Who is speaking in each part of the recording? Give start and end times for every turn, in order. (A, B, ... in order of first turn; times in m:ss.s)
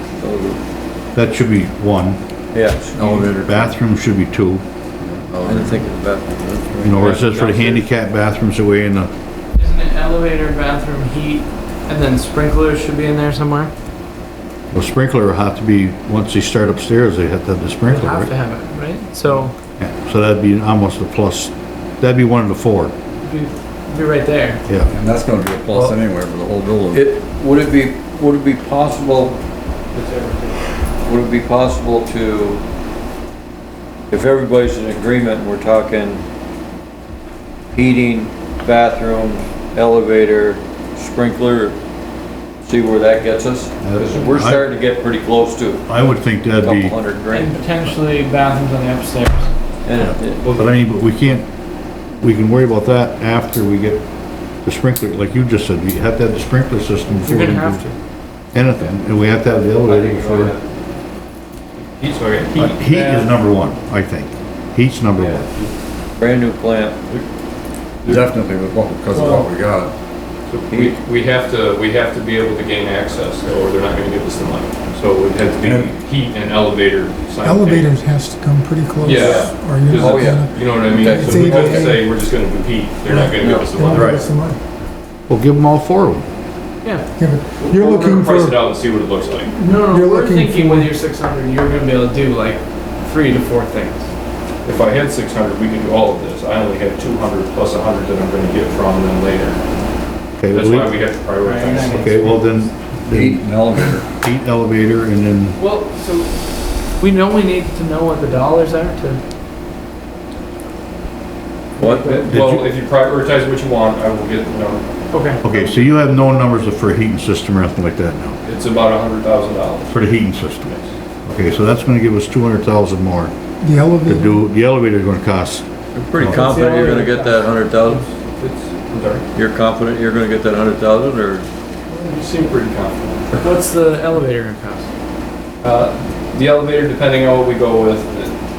0:00.2-0:00.6 A
0:01.1-0:02.2 B
0:02.5-0:03.8 A
0:03.0-0:04.6 B
0:05.0-0:05.9 C
0:05.4-0:06.7 A
0:06.8-0:09.1 B
0:07.0-0:07.9 D
0:09.6-0:13.7 E
0:14.7-0:18.3 B
0:17.9-0:19.6 E
0:19.8-0:23.0 B
0:23.2-0:24.6 E
0:24.7-0:24.9 B
0:24.9-0:27.1 C
0:26.9-0:29.4 A
0:29.9-0:30.6 E
0:31.0-0:32.6 A
0:34.1-0:36.2 A
0:37.7-0:41.8 A
0:42.6-0:45.9 A
0:43.8-0:44.6 B
0:45.9-0:47.0 B
0:46.6-0:47.6 A
0:47.3-0:49.5 E
0:49.9-0:50.4 A
0:50.0-0:51.5 B
0:50.4-0:50.8 D
0:52.1-0:54.0 B
0:54.6-0:57.8 B
0:57.2-0:58.0 E
0:58.5-1:00.6 B
0:59.8-1:00.6 D
1:01.8-1:02.9 D
1:02.6-1:05.5 B
1:02.9-1:03.3 E
1:05.1-1:05.7 D
1:06.2-1:07.1 A
1:08.0-1:09.9 C
1:09.1-1:09.5 E
1:10.5-1:18.0 D
1:15.6-1:15.9 C
1:17.4-1:22.0 F
1:19.0-1:24.3 D
1:19.2-1:21.9 A
1:23.1-1:24.6 F
1:23.4-1:23.8 A
1:25.3-1:26.3 B
1:27.2-1:28.6 F
1:27.6-1:29.5 D
1:29.6-1:34.1 E
1:29.9-1:30.9 F
1:34.6-1:39.6 D
1:40.4-1:41.0 B
1:40.5-1:42.3 D
1:41.4-1:42.7 E
1:42.0-1:45.6 B
1:43.3-1:44.0 A
1:45.6-1:46.3 E
1:47.0-1:49.2 E
1:51.8-1:52.3 E
1:51.8-1:55.9 D
1:52.3-1:52.7 B
1:55.1-1:55.4 E
1:55.4-1:58.4 B
1:58.4-2:00.1 D
1:59.9-2:03.3 B
2:00.6-2:01.0 D
2:03.6-2:04.4 F
2:04.0-2:05.7 B
2:06.0-2:08.0 A
2:06.2-2:06.5 B
2:06.3-2:08.0 E
2:07.9-2:09.3 D
2:09.4-2:11.5 A
2:11.9-2:13.4 D
2:13.4-2:14.9 E
2:15.6-2:18.4 D